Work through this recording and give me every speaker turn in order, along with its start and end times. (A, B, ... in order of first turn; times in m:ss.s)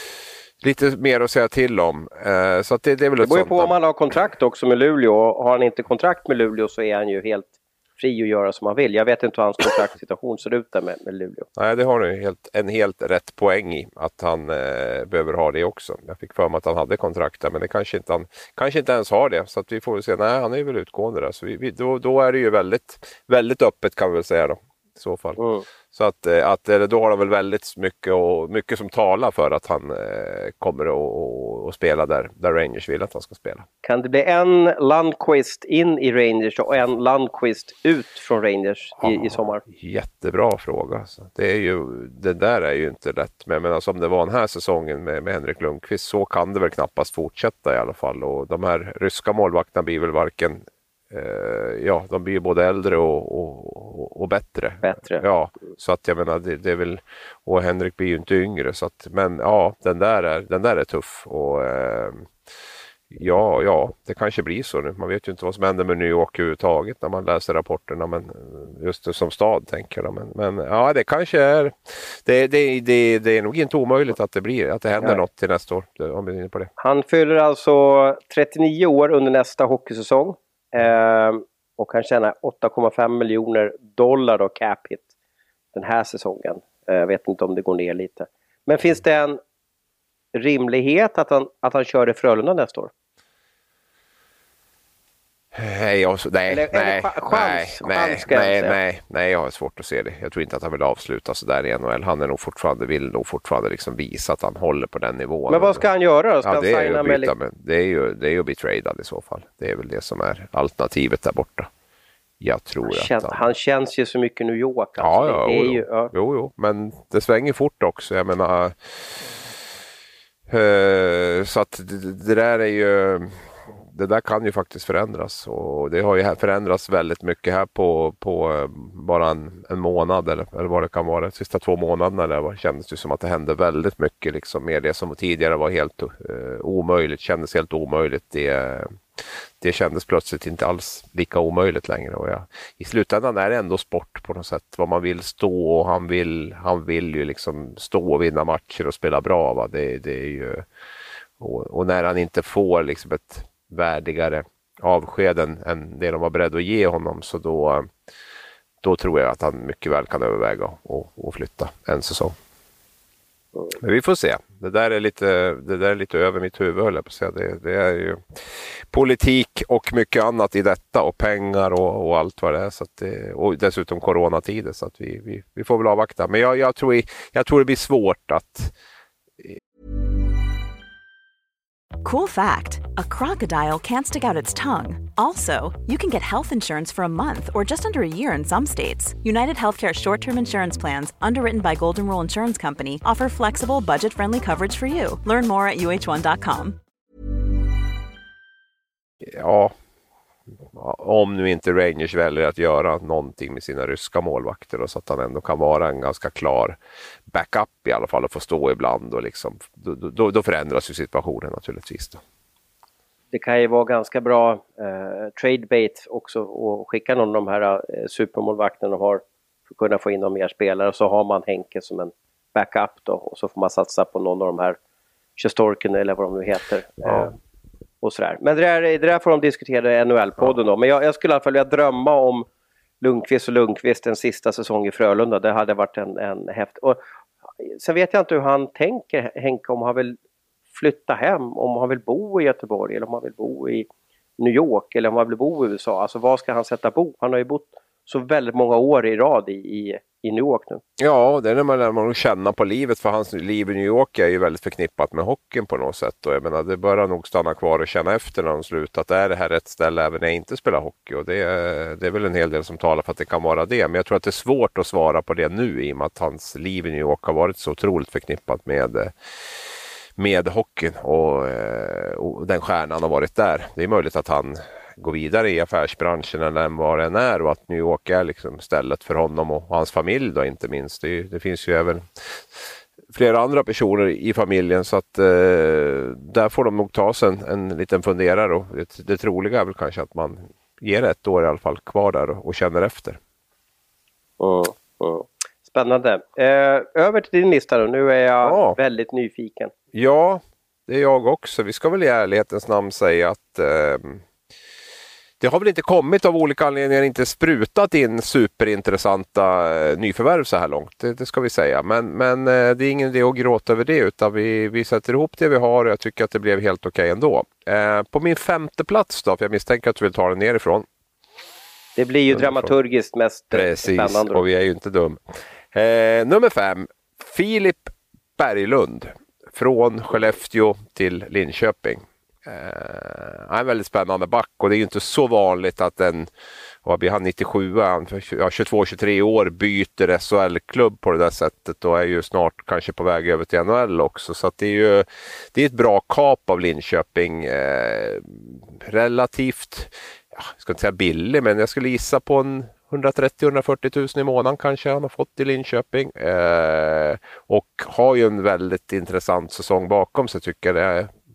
0:00.6-0:03.7 A
0:03.2-0:11.5 B
0:11.6-0:25.4 A
0:25.4-0:25.6 B
0:25.9-0:33.7 A
0:33.8-0:39.6 B
0:39.0-1:02.3 A
0:54.8-0:55.2 B
1:03.1-1:16.7 A
1:16.8-1:25.1 B
1:25.7-1:29.4 B
1:30.3-1:32.9 B
1:35.5-1:45.8 A
1:36.5-1:38.8 B
1:45.5-1:47.3 B
1:46.4-1:51.7 A
1:52.4-1:53.4 A
1:52.8-1:56.1 B
1:55.0-1:59.3 A
2:00.5-2:30.6 A
2:31.4-2:37.9 A
2:38.8-2:42.3 A
2:43.7-2:48.4 A
2:48.9-2:58.7 A
3:02.0-3:16.8 C
3:19.2-3:19.7 A
3:20.7-3:26.8 A
3:27.3-3:32.2 A
3:33.3-3:44.8 B
3:45.4-3:47.3 B
3:48.0-3:52.5 B
3:53.0-3:57.0 B
3:57.6-4:00.2 B
4:00.7-4:10.8 B
4:11.0-4:29.1 A
4:30.2-4:42.6 A
4:43.1-4:53.2 A
4:54.4-4:59.7 B
4:58.4-4:58.8 A
4:59.9-5:04.2 A
5:05.4-5:20.8 A
5:22.0-5:24.4 B
5:22.3-5:22.7 A
5:23.5-5:25.2 A
5:25.7-5:36.3 A
5:36.8-6:01.1 A